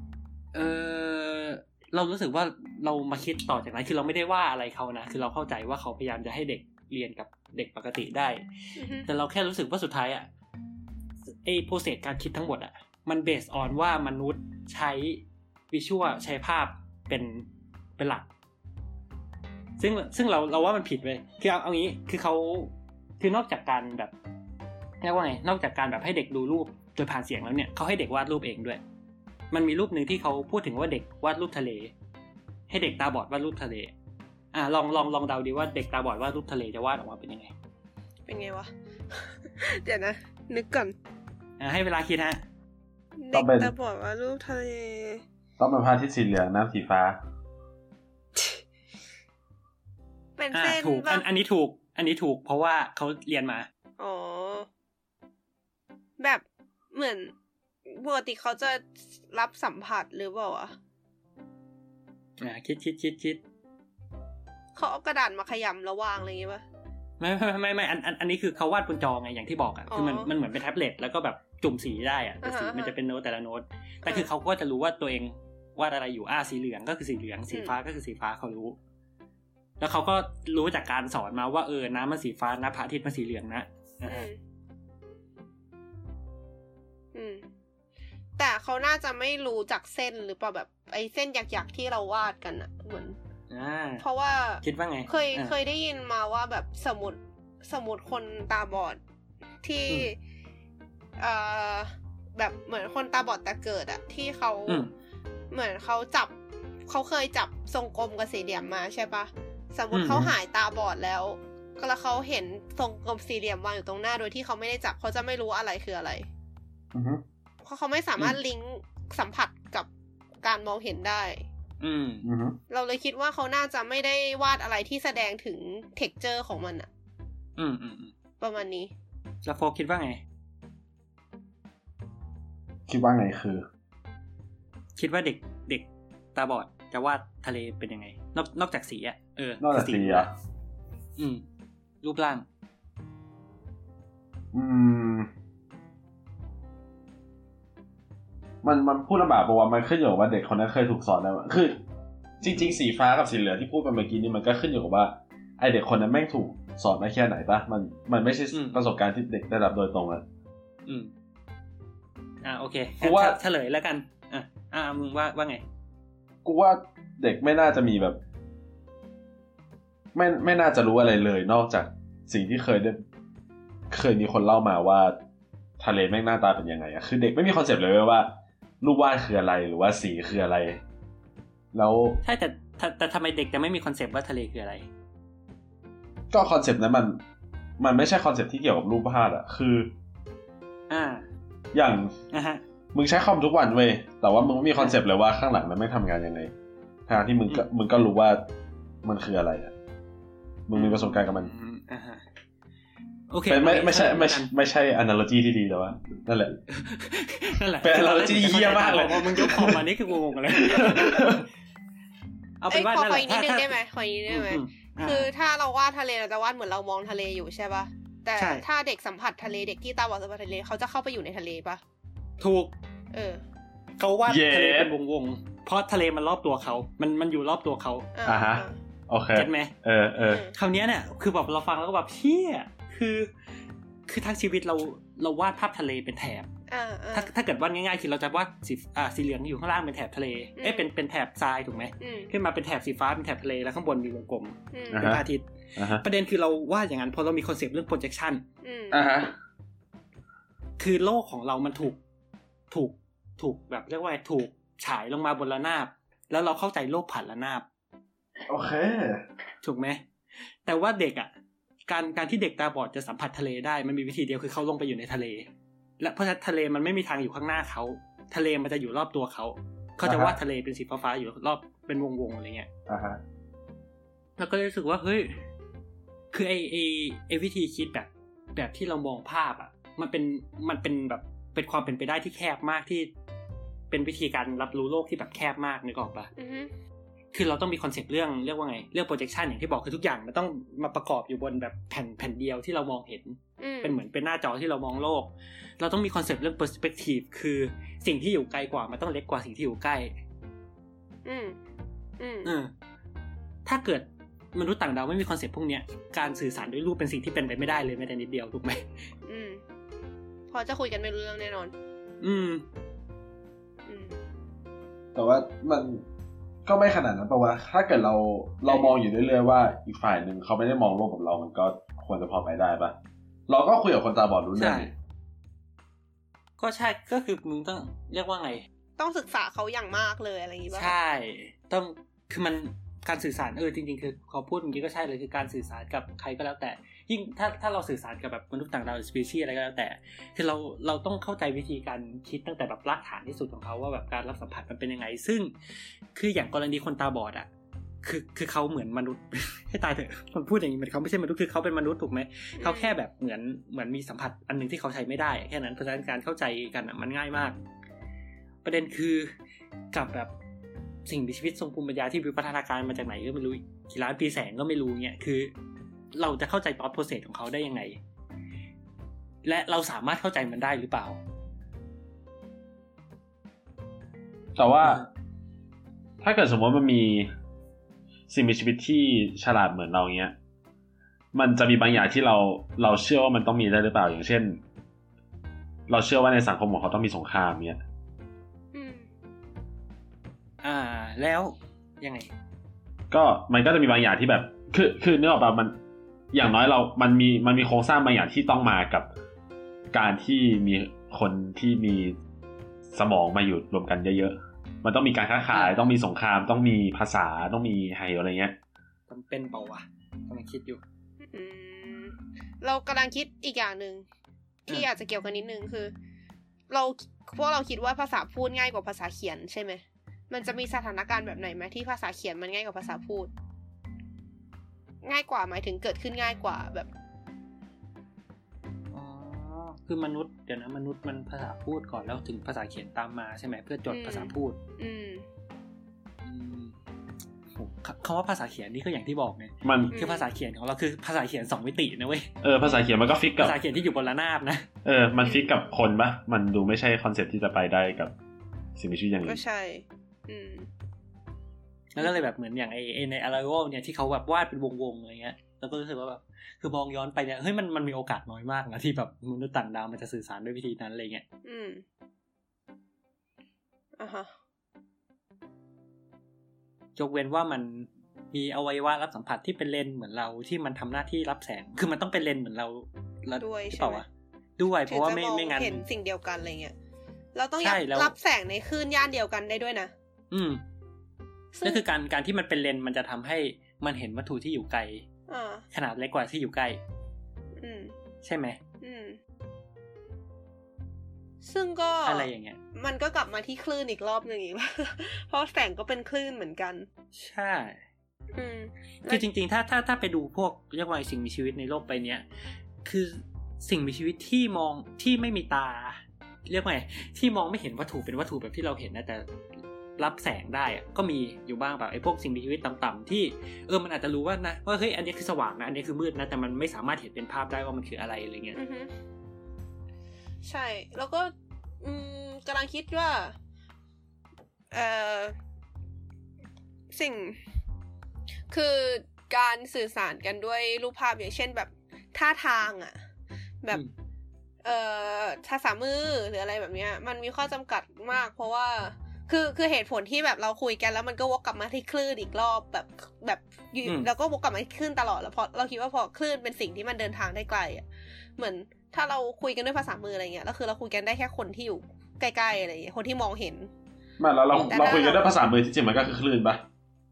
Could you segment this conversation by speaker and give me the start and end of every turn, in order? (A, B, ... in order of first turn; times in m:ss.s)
0:00.5-0:08.4 A
0:08.8-0:09.1 B
0:09.0-0:10.3 A
0:11.4-0:17.5 A
0:18.0-0:18.3 A
0:19.8-0:24.1 A
0:25.0-0:28.8 A
0:29.5-0:31.9 A
0:32.7-0:33.9 A
0:34.5-0:37.5 A
0:38.3-0:41.0 B
0:41.6-0:42.4 A
0:43.2-0:45.2 B
0:43.3-0:43.7 C
0:45.6-0:47.2 C
0:50.4-0:51.2 B
0:50.5-0:53.7 A
0:54.0-0:54.7 B
0:56.2-0:57.3 B
0:57.9-1:00.8 B
1:02.4-1:03.4 A
1:04.8-1:06.6 B
1:07.2-1:18.8 A
1:09.9-1:10.3 B
1:12.4-1:13.0 B
1:19.8-1:24.3 A
1:24.1-1:24.4 B
1:27.1-1:27.5 B
1:28.4-1:33.2 B
1:33.5-1:34.0 A
1:34.0-1:39.0 B
1:34.6-1:35.6 A
1:39.6-1:40.2 B
1:41.2-1:44.9 B
1:45.5-1:46.3 B
1:46.9-1:56.3 B
1:49.9-1:50.3 A
1:56.9-1:57.2 C
1:57.6-1:59.9 B
2:00.4-2:01.4 B
2:01.8-2:02.3 A
2:02.2-2:02.6 C
2:02.7-2:06.9 B
2:07.6-2:08.1 A
2:08.4-2:08.9 B
2:09.4-2:10.2 A
2:12.9-2:13.6 C
2:15.0-2:20.3 A
2:19.6-2:20.3 C
2:21.2-2:21.4 A
2:22.0-2:22.5 A
2:24.5-2:25.3 C
2:28.6-2:31.8 C
2:32.4-2:40.2 C
2:38.5-2:38.8 A
2:40.9-2:41.1 A
2:42.4-2:45.6 A
2:43.0-2:43.4 C
2:46.4-2:48.2 C
2:50.2-2:53.0 C
2:53.9-2:55.2 C
2:55.8-3:00.8 C
3:01.7-3:02.2 C
3:02.2-3:04.9 A
3:06.3-3:07.2 C
3:07.8-3:09.9 C
3:10.9-3:11.3 A
3:11.7-3:12.2 C
3:12.3-3:12.6 A
3:12.9-3:16.5 C
3:17.1-3:18.5 C
3:19.0-3:19.7 C
3:20.7-3:21.5 C
3:20.7-3:22.2 A
3:23.3-3:24.5 A
3:23.5-3:26.6 C
3:26.7-3:31.4 A
3:27.8-3:29.9 C
3:30.5-3:31.5 C
3:32.6-3:33.8 A
3:32.7-3:41.8 B
3:34.3-3:35.3 A
3:38.4-3:38.6 A
3:42.4-3:42.7 A
3:43.1-3:43.4 B
3:44.0-3:48.1 A
3:44.3-3:44.9 C
3:48.2-3:48.8 B
3:48.3-3:50.5 C
3:49.4-3:49.7 A
3:50.2-3:50.6 B
3:50.6-3:53.3 A
3:54.1-3:56.5 A
3:56.7-3:57.3 B
3:57.1-4:08.4 A
4:00.6-4:00.9 B
4:02.0-4:02.3 B
4:04.7-4:05.1 B
4:04.9-4:05.2 C
4:05.8-4:06.0 C
4:08.6-4:09.0 B
4:08.9-4:09.4 C
4:10.8-4:12.0 A
4:12.7-4:17.7 A
4:18.5-4:19.2 C
4:19.6-4:20.0 A
4:20.6-4:21.3 A
4:21.9-4:25.5 A
4:26.0-4:32.7 A
4:30.0-4:30.4 C
4:32.9-4:33.2 C
4:34.4-4:35.4 A
4:36.3-4:43.1 A
4:43.9-4:46.3 A
4:46.4-4:46.7 B
4:47.3-5:00.2 A
4:53.6-4:54.0 B
5:01.2-5:01.6 B
5:02.2-5:02.5 B
5:02.4-5:02.7 A
5:03.6-5:08.9 A
5:09.3-5:09.6 B
5:10.5-5:11.7 B
5:12.2-5:12.6 A
5:13.9-5:14.2 B
5:15.2-5:16.0 C
5:16.7-5:23.0 C
5:18.7-5:18.9 A
5:23.5-5:24.9 C
5:24.6-5:24.9 A
5:26.6-5:28.7 A
5:29.0-5:30.9 B
5:30.7-5:45.5 A
5:46.2-5:47.5 A
5:48.0-5:57.6 A
5:52.6-5:52.9 B
5:58.6-5:59.3 A
5:59.9-6:00.3 A
6:01.1-6:05.5 A
6:06.1-6:08.0 A
6:09.4-6:11.2 A
6:14.6-6:15.0 C
6:16.2-6:17.3 C
6:18.3-6:20.4 C
6:21.3-6:24.6 C
6:25.9-6:27.8 C
6:28.7-6:29.1 B
6:30.6-6:32.3 A
6:33.1-6:35.8 C
6:36.3-6:39.1 C
6:39.9-6:42.2 C
6:42.9-6:48.6 C
6:45.5-6:45.8 A
6:49.1-6:50.8 A
6:51.3-6:54.0 B
6:54.7-6:55.9 B
6:56.7-7:03.3 B
7:05.0-7:06.9 B
7:08.9-7:14.6 A
7:13.9-7:15.3 B
7:16.2-7:16.8 A
7:17.6-7:22.3 A
7:19.6-7:20.0 C
7:19.9-7:20.3 B
7:22.4-7:23.6 C
7:22.6-7:22.9 B
7:23.4-7:24.7 A
7:24.8-7:28.1 C
7:25.2-7:25.5 B
7:28.8-7:29.4 C
7:29.2-7:30.7 B
7:32.0-7:41.2 A
7:41.4-7:41.8 B
7:44.0-7:44.3 B
7:47.0-7:54.1 A
7:53.4-7:54.0 B
7:54.6-7:55.8 A
7:54.9-7:56.7 B
7:57.4-7:59.9 B
7:57.6-7:58.1 A
8:00.3-8:00.6 A
8:01.5-8:01.8 B
8:01.6-8:05.1 A
8:05.3-8:05.7 B
8:05.7-8:06.8 A
8:07.6-8:07.9 B
8:08.2-8:08.6 A
8:08.8-8:09.2 B
8:11.4-8:16.9 B
8:12.1-8:12.6 A
8:17.1-8:17.8 A
8:18.4-8:19.2 B
8:19.1-8:22.3 A
8:22.8-8:29.3 A
8:30.0-8:38.6 A
8:38.6-8:38.9 B
8:40.4-8:43.4 B
8:44.7-8:45.4 B
8:46.9-8:47.4 B
8:48.5-8:53.0 B
8:54.6-9:07.8 B
9:08.4-9:13.7 B
9:14.2-9:16.6 C
9:14.5-9:14.8 A
9:14.6-9:15.3 B